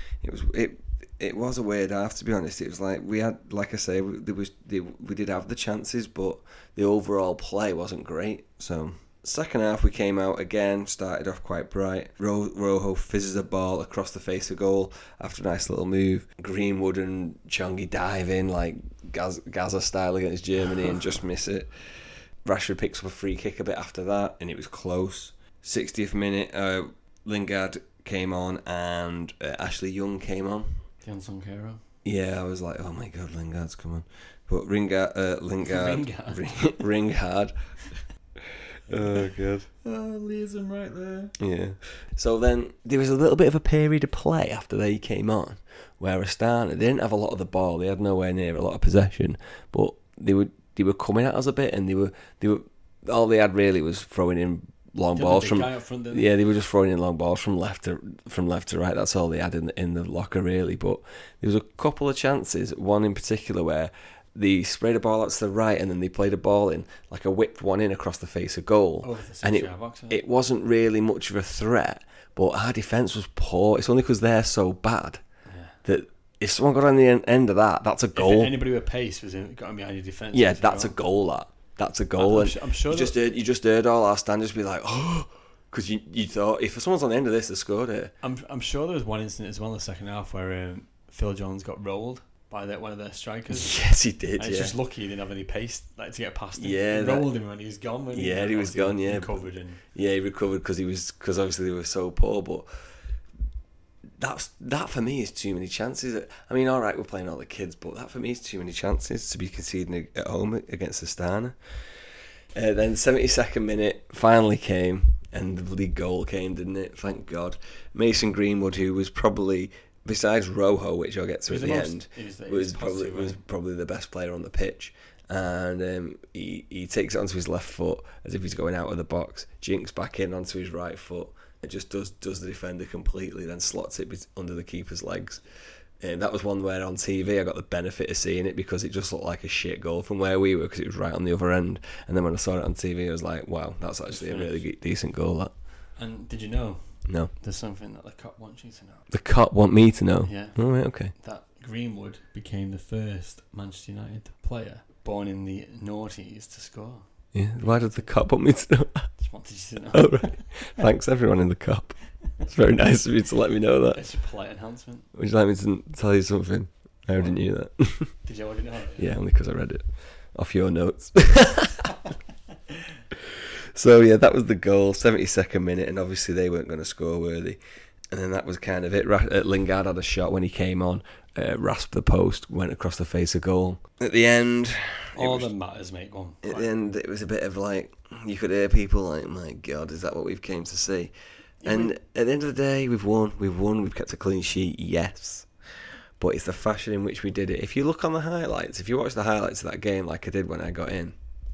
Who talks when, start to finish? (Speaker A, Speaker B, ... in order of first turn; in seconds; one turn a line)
Speaker A: 0.2-21.9
Speaker A: 22.4-30.7
Speaker B: 31.0-31.8
Speaker A: 32.0-37.5
Speaker B: 35.6-36.8
Speaker A: 38.4-39.7
Speaker B: 38.9-39.3
Speaker B: 39.8-41.4
Speaker A: 41.4-75.2
Speaker B: 55.1-56.3
Speaker B: 69.0-70.2
Speaker B: 75.5-75.8
Speaker A: 75.8-78.5
Speaker B: 78.1-81.0
Speaker A: 80.3-88.1
Speaker B: 82.2-83.2
Speaker B: 88.2-93.8
Speaker A: 93.5-94.7
Speaker B: 94.4-99.8
Speaker A: 96.6-97.3
Speaker A: 98.1-99.4
Speaker A: 99.9-102.7
Speaker A: 104.2-112.0
Speaker A: 112.5-135.4
Speaker B: 121.5-123.4
Speaker A: 136.0-145.5
Speaker B: 144.1-144.7
Speaker B: 146.0-149.0
Speaker A: 147.1-147.3
Speaker A: 149.1-151.1
Speaker B: 150.2-150.6
Speaker B: 151.1-157.1
Speaker A: 157.3-159.1
Speaker B: 157.6-158.1
Speaker B: 159.2-160.7
Speaker A: 159.9-164.0
Speaker B: 163.9-165.1
Speaker A: 165.1-168.2
Speaker B: 168.2-169.1
Speaker A: 169.0-171.9
Speaker A: 173.1-177.6
Speaker A: 178.1-185.5
Speaker B: 185.1-186.8
Speaker A: 186.4-191.1
Speaker B: 191.6-191.9
Speaker A: 191.6-195.5
Speaker A: 196.2-201.1